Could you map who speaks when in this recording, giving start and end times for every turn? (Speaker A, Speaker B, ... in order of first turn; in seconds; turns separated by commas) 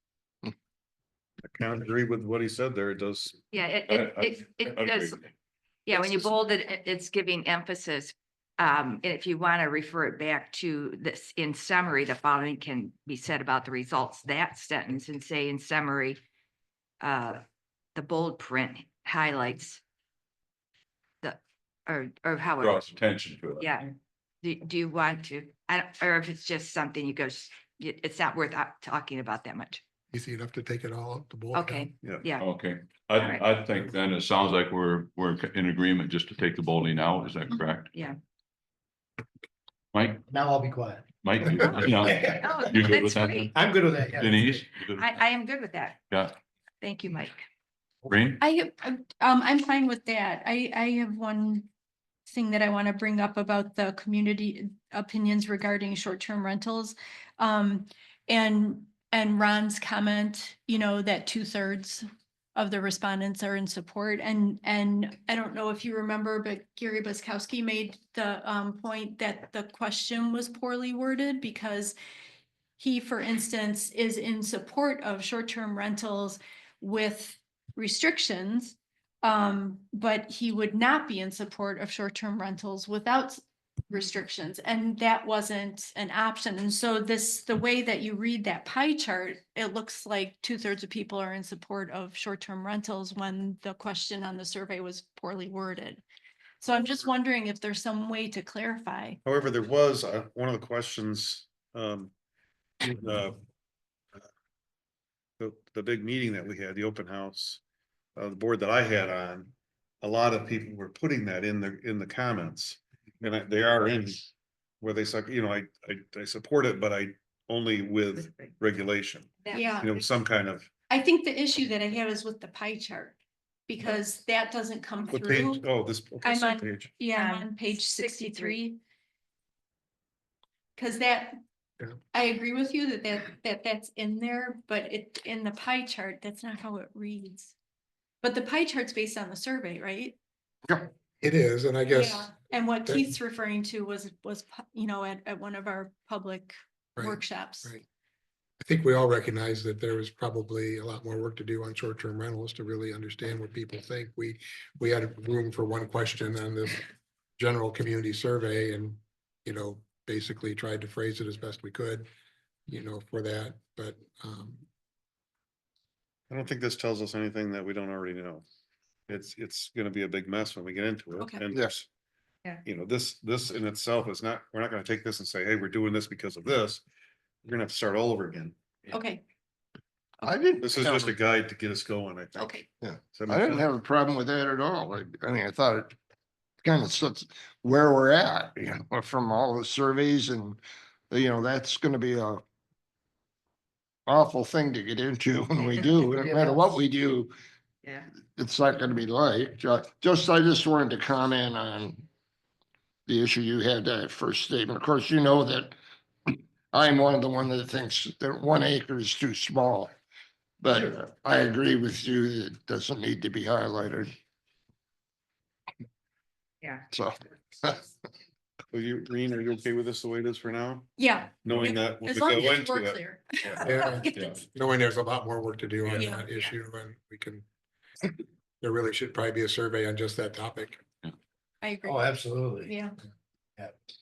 Speaker A: 1.4-3.4, Speaker B: 3.5-5.2, Speaker C: 3.9-5.2, Speaker B: 5.9-16.2, Speaker B: 17.0-17.4, Speaker B: 17.9-19.8, Speaker B: 21.2-23.0, Speaker C: 22.6-23.7, Speaker B: 23.6-29.8, Speaker D: 30.1-31.8, Speaker B: 31.5-32.5, Speaker C: 32.4-37.9, Speaker B: 33.1-33.5, Speaker C: 39.9-40.3, Speaker E: 40.3-42.4, Speaker C: 41.2-45.2, Speaker B: 42.3-43.5, Speaker E: 43.5-44.6, Speaker B: 44.9-46.0, Speaker B: 46.8-47.4, Speaker C: 48.1-48.4, Speaker F: 48.4-51.7, Speaker F: 52.3-71.9, Speaker F: 72.8-96.0, Speaker F: 96.6-99.2, Speaker A: 99.2-102.1, Speaker A: 102.8-103.4, Speaker A: 105.4-107.6, Speaker A: 108.2-114.3, Speaker A: 114.8-119.3, Speaker B: 118.1-118.5, Speaker B: 119.4-119.8, Speaker F: 119.5-119.9, Speaker A: 119.8-120.7, Speaker F: 120.9-123.2, Speaker F: 123.7-125.6, Speaker A: 125.1-126.9, Speaker F: 126.2-128.8, Speaker B: 127.1-128.6, Speaker F: 130.8-131.4, Speaker F: 132.1-137.5, Speaker F: 138.2-140.2, Speaker D: 141.2-142.3, Speaker F: 141.8-147.7, Speaker D: 147.0-147.8, Speaker D: 148.6-156.8, Speaker D: 157.4-162.1, Speaker D: 162.7-164.6, Speaker A: 166.3-168.4, Speaker A: 169.1-171.8, Speaker A: 172.6-176.8, Speaker A: 177.4-178.6, Speaker F: 178.9-179.2, Speaker G: 180.2-181.2, Speaker A: 180.6-183.7, Speaker F: 182.3-182.6, Speaker G: 182.8-185.9, Speaker G: 186.6-192.4, Speaker G: 194.1-197.3, Speaker E: 196.2-196.5, Speaker G: 198.3-202.0, Speaker G: 203.1-205.7, Speaker G: 206.3-209.9, Speaker G: 210.6-214.1, Speaker G: 216.9-217.8, Speaker A: 218.7-220.9, Speaker F: 221.0-224.4, Speaker A: 221.4-223.0, Speaker C: 223.4-224.4, Speaker D: 223.7-227.4, Speaker F: 225.9-226.3, Speaker D: 228.6-230.8, Speaker F: 231.6-232.9, Speaker E: 231.8-232.7